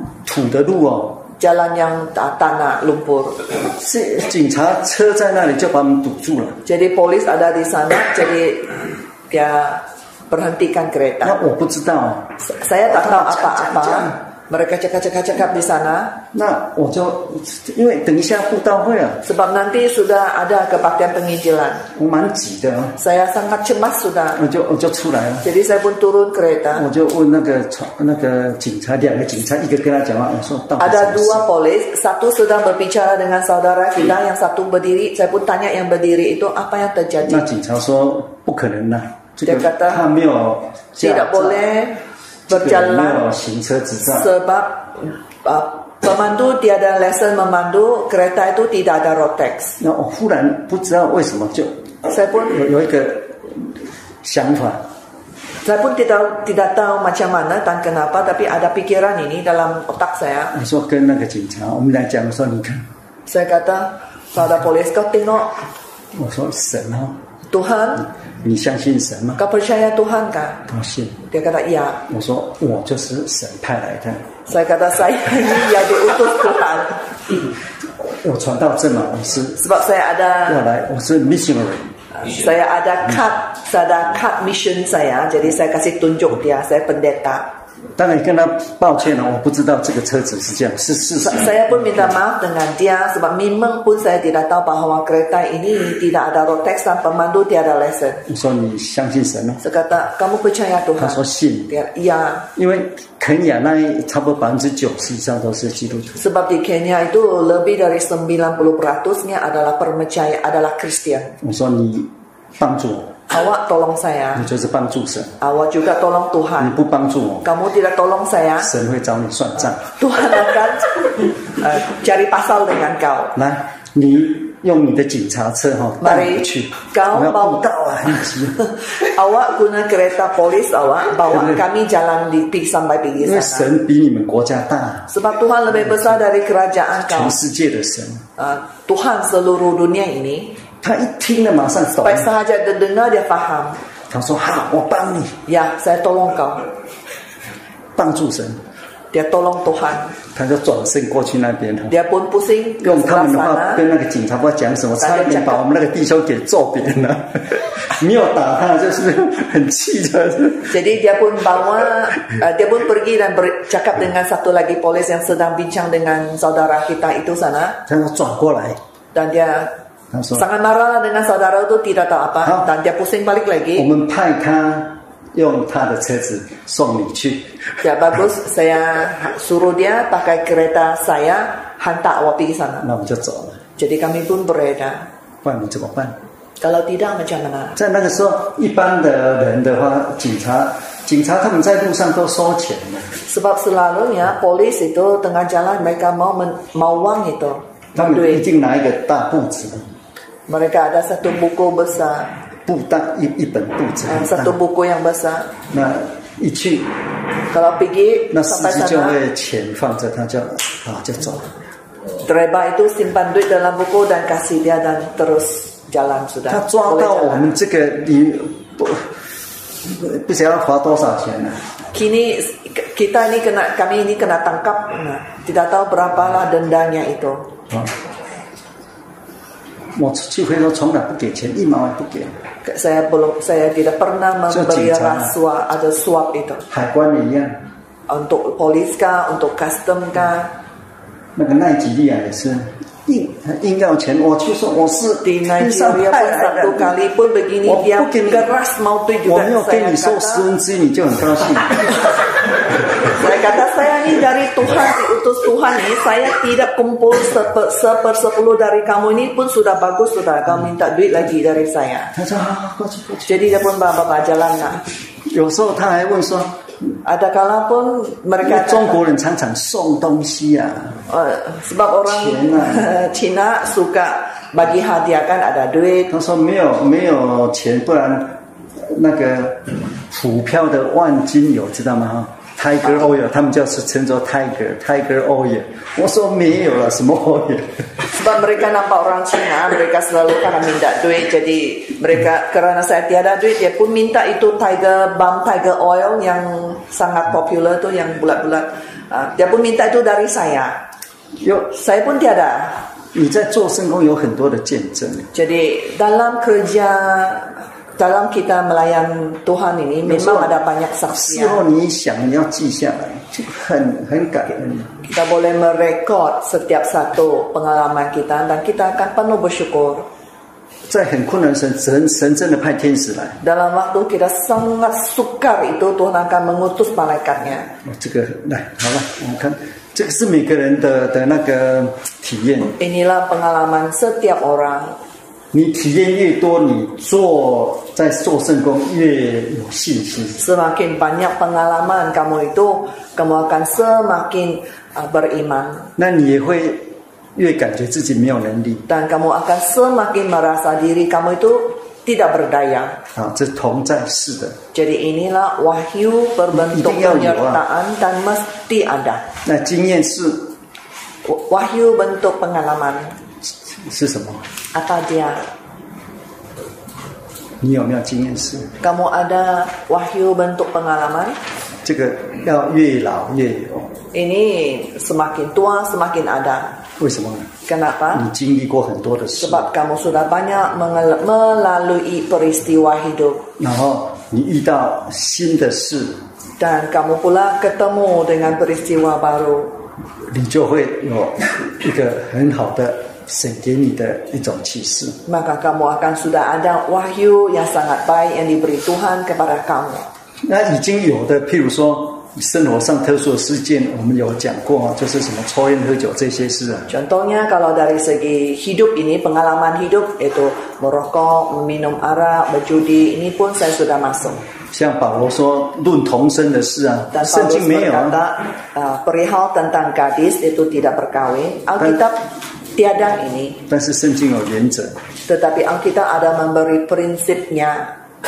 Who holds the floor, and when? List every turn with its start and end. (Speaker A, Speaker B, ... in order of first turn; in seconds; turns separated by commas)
Speaker A: 0.2-1.2, Speaker B: 1.4-3.4, Speaker A: 3.6-6.6, Speaker B: 6.7-11.3, Speaker A: 11.2-12.3, Speaker B: 12.4-16.1, Speaker A: 12.9-14.2, Speaker A: 16.3-19.2, Speaker B: 19.2-21.9, Speaker A: 21.9-23.0, Speaker B: 23.0-24.4, Speaker A: 24.4-25.5, Speaker B: 25.4-26.9, Speaker A: 26.7-31.4, Speaker B: 30.8-37.5, Speaker A: 37.3-41.6, Speaker B: 39.4-40.0, Speaker B: 41.0-43.2, Speaker A: 42.5-44.3, Speaker B: 44.1-49.8, Speaker A: 49.8-51.8, Speaker B: 52.1-52.5, Speaker A: 52.4-53.7, Speaker A: 54.2-54.8, Speaker B: 55.6-60.5, Speaker A: 60.5-62.9, Speaker B: 63.3-65.7, Speaker A: 66.1-67.2, Speaker B: 67.5-68.1, Speaker A: 68.4-69.4, Speaker B: 69.4-70.7, Speaker A: 70.7-71.2, Speaker B: 71.3-72.0, Speaker A: 72.1-74.3, Speaker B: 74.5-77.2, Speaker A: 78.0-79.6, Speaker B: 79.6-80.7, Speaker A: 80.5-81.9, Speaker B: 82.1-87.5, Speaker A: 88.0-92.1, Speaker B: 91.2-98.2, Speaker A: 98.3-99.6, Speaker B: 99.6-102.5, Speaker A: 101.0-101.7, Speaker A: 102.6-106.2, Speaker B: 106.2-111.4, Speaker A: 111.4-113.2, Speaker B: 113.3-114.5, Speaker A: 114.3-115.3, Speaker B: 115.4-116.8, Speaker A: 116.6-117.5, Speaker B: 117.4-118.7, Speaker A: 118.6-119.9, Speaker B: 119.8-123.4, Speaker A: 123.3-128.7, Speaker B: 126.0-127.6, Speaker B: 128.6-133.7, Speaker A: 131.3-131.6, Speaker A: 133.2-135.1, Speaker B: 135.1-137.4, Speaker A: 135.7-136.2, Speaker A: 137.1-138.2, Speaker B: 138.4-140.6, Speaker A: 140.8-142.3, Speaker B: 141.9-143.8, Speaker A: 144.1-145.4, Speaker B: 145.5-146.7, Speaker A: 148.0-148.6, Speaker B: 149.1-150.2, Speaker A: 150.3-151.9, Speaker B: 151.9-153.8, Speaker A: 152.8-160.8, Speaker B: 155.0-155.6, Speaker B: 160.7-167.8, Speaker A: 167.9-168.8, Speaker B: 169.1-169.7, Speaker A: 170.1-170.4, Speaker B: 170.3-173.9, Speaker A: 173.8-177.6, Speaker B: 177.8-182.8, Speaker A: 182.8-183.6, Speaker B: 183.8-185.1, Speaker A: 185.4-186.2, Speaker B: 186.6-187.8, Speaker A: 187.8-193.2, Speaker B: 193.3-198.4, Speaker A: 197.9-199.9, Speaker B: 200.5-202.3, Speaker A: 202.7-204.6, Speaker B: 204.1-205.6, Speaker A: 205.7-206.9, Speaker B: 207.5-209.2, Speaker A: 208.3-211.5, Speaker B: 212.2-217.5, Speaker A: 216.5-219.2, Speaker A: 219.8-221.7, Speaker B: 221.9-227.5, Speaker A: 229.9-232.3, Speaker B: 232.6-236.7, Speaker A: 234.5-235.3, Speaker A: 236.7-237.6, Speaker B: 238.1-240.5, Speaker A: 241.4-246.9, Speaker B: 245.2-250.5, Speaker A: 247.7-248.5, Speaker A: 249.2-251.9, Speaker B: 253.0-262.1, Speaker A: 262.1-263.6, Speaker B: 263.3-264.9, Speaker A: 265.2-266.9, Speaker B: 267.0-269.0, Speaker A: 268.4-271.0, Speaker B: 271.1-276.1, Speaker A: 272.1-272.9, Speaker A: 276.1-287.9, Speaker B: 288.1-300.8, Speaker A: 301.4-301.7, Speaker B: 301.7-302.8, Speaker A: 303.1-305.3, Speaker B: 305.3-311.6, Speaker A: 310.0-310.6, Speaker A: 311.1-314.9, Speaker B: 315.1-320.1, Speaker A: 320.9-323.4, Speaker B: 323.4-327.7, Speaker A: 327.8-332.8, Speaker B: 332.8-335.0, Speaker A: 335.5-340.4, Speaker B: 340.4-345.9, Speaker A: 346.0-348.8, Speaker B: 348.9-353.0, Speaker A: 353.1-354.6, Speaker B: 354.7-359.2, Speaker A: 356.5-357.6, Speaker A: 359.4-360.5, Speaker B: 361.2-363.2, Speaker A: 363.4-364.4, Speaker B: 364.7-365.4, Speaker A: 367.6-368.7, Speaker B: 368.8-371.4, Speaker A: 371.8-373.9, Speaker B: 374.1-376.8, Speaker A: 377.0-377.5, Speaker B: 377.7-378.2, Speaker A: 378.1-379.6, Speaker B: 379.4-383.5, Speaker A: 383.6-386.2, Speaker B: 386.6-389.8, Speaker A: 390.2-395.2, Speaker B: 395.3-400.1, Speaker A: 400.4-406.9, Speaker B: 406.9-414.4, Speaker A: 414.7-418.2, Speaker B: 417.1-423.6, Speaker A: 423.7-425.0, Speaker B: 425.3-427.9